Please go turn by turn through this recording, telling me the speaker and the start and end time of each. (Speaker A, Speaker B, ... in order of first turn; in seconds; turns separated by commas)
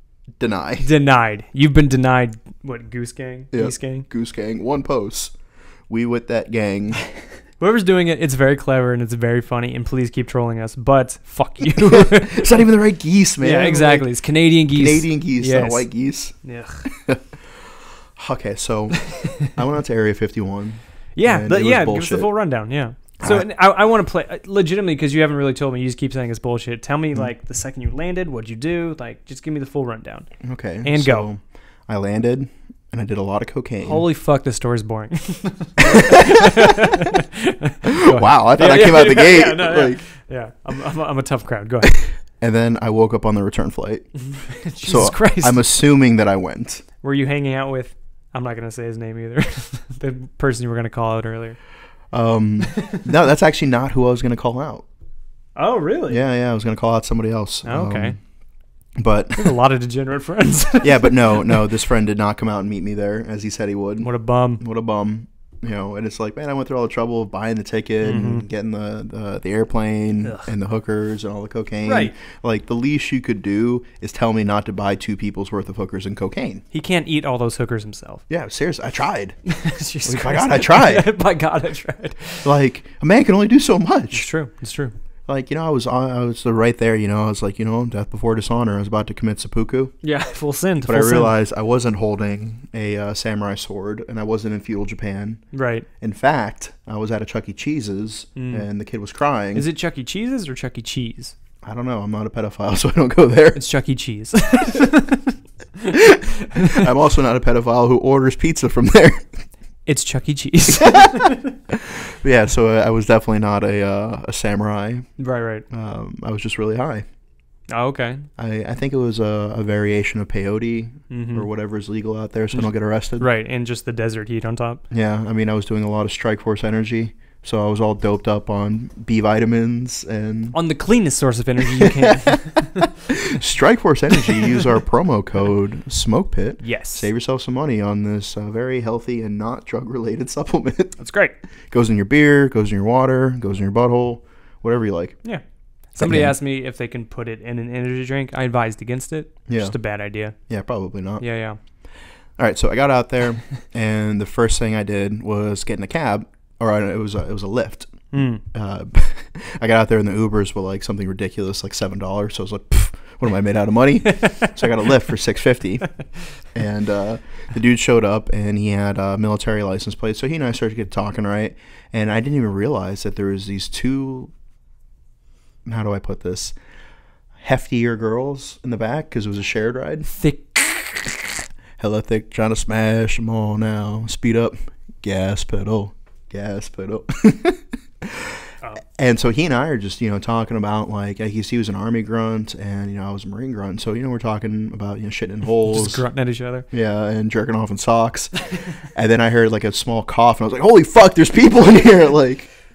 Speaker A: 0.3-0.9, Speaker B: 0.8-4.1, Speaker A: 3.5-7.2, Speaker B: 7.5-12.6, Speaker A: 11.9-22.3, Speaker B: 13.4-16.9, Speaker B: 21.1-31.3, Speaker A: 23.2-23.5, Speaker A: 30.4-34.0, Speaker B: 33.8-42.0, Speaker A: 35.9-36.1, Speaker A: 38.0-40.0, Speaker A: 42.0-46.8, Speaker B: 44.3-45.7, Speaker B: 47.0-51.6, Speaker A: 52.1-54.9, Speaker B: 55.5-56.2, Speaker A: 56.1-58.3, Speaker B: 57.6-58.2, Speaker A: 58.9-59.6, Speaker B: 59.4-61.5, Speaker A: 60.8-76.6, Speaker B: 64.0-64.6, Speaker B: 68.0-68.5, Speaker B: 70.2-70.5, Speaker B: 71.8-72.1, Speaker B: 76.7-78.2, Speaker A: 78.3-79.4, Speaker B: 79.5-82.5, Speaker A: 80.0-81.1, Speaker A: 82.4-84.3, Speaker B: 84.1-84.9, Speaker A: 85.2-90.0, Speaker B: 90.0-91.3, Speaker A: 90.8-99.7, Speaker B: 95.5-95.8, Speaker B: 98.3-98.7, Speaker B: 99.5-101.3, Speaker A: 101.6-103.6, Speaker B: 103.5-105.4, Speaker B: 106.5-106.8, Speaker A: 106.7-109.5, Speaker B: 109.8-111.4, Speaker A: 110.8-117.0, Speaker B: 115.2-115.7, Speaker B: 117.7-118.3, Speaker A: 118.4-123.3, Speaker B: 121.1-121.5, Speaker B: 122.5-124.8, Speaker A: 124.9-130.6, Speaker B: 130.5-132.8, Speaker A: 131.8-132.3, Speaker A: 133.3-141.0, Speaker B: 136.6-137.1, Speaker B: 141.0-141.3, Speaker A: 141.7-145.3, Speaker B: 145.2-150.4, Speaker A: 146.0-146.3, Speaker A: 149.5-149.8, Speaker A: 150.3-151.7, Speaker B: 151.2-151.6, Speaker A: 152.4-174.3, Speaker B: 158.1-158.4, Speaker A: 175.6-176.6, Speaker A: 177.4-180.1, Speaker B: 180.1-181.4, Speaker A: 181.8-196.1, Speaker B: 195.7-196.7, Speaker A: 196.7-202.5